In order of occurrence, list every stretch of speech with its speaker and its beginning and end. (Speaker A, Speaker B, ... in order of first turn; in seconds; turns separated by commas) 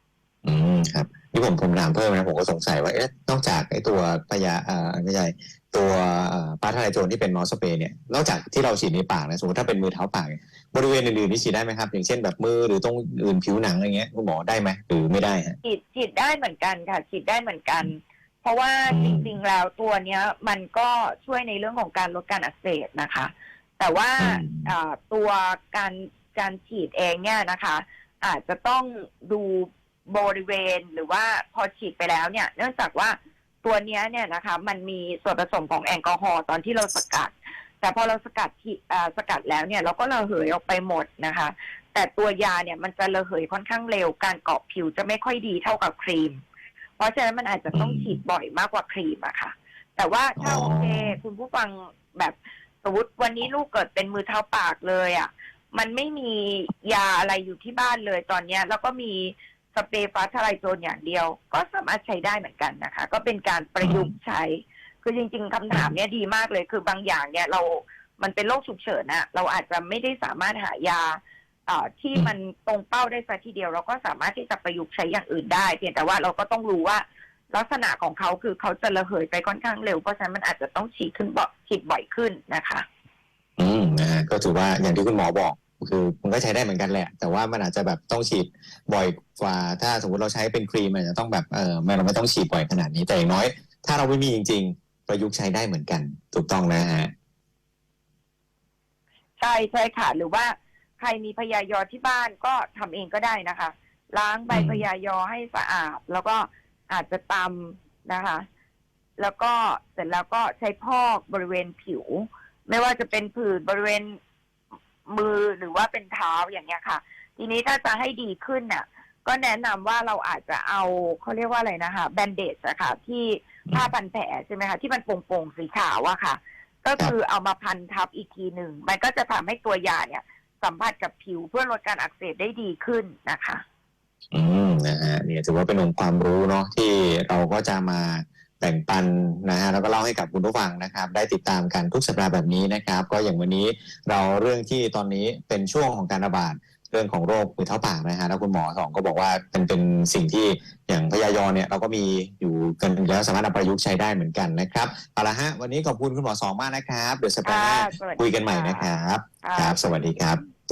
Speaker A: 0.4-15.6, Speaker B: 15.6-46.4, Speaker A: 18.9-19.3, Speaker A: 24.2-24.7, Speaker B: 47.0-82.8, Speaker A: 47.7-48.2, Speaker A: 50.4-51.2, Speaker A: 63.8-64.1, Speaker A: 83.6-97.1, Speaker B: 99.4-108.4, Speaker A: 104.5-104.8, Speaker B: 109.2-114.2, Speaker B: 115.1-133.6, Speaker A: 134.3-160.4, Speaker B: 157.4-158.9, Speaker B: 159.4-159.9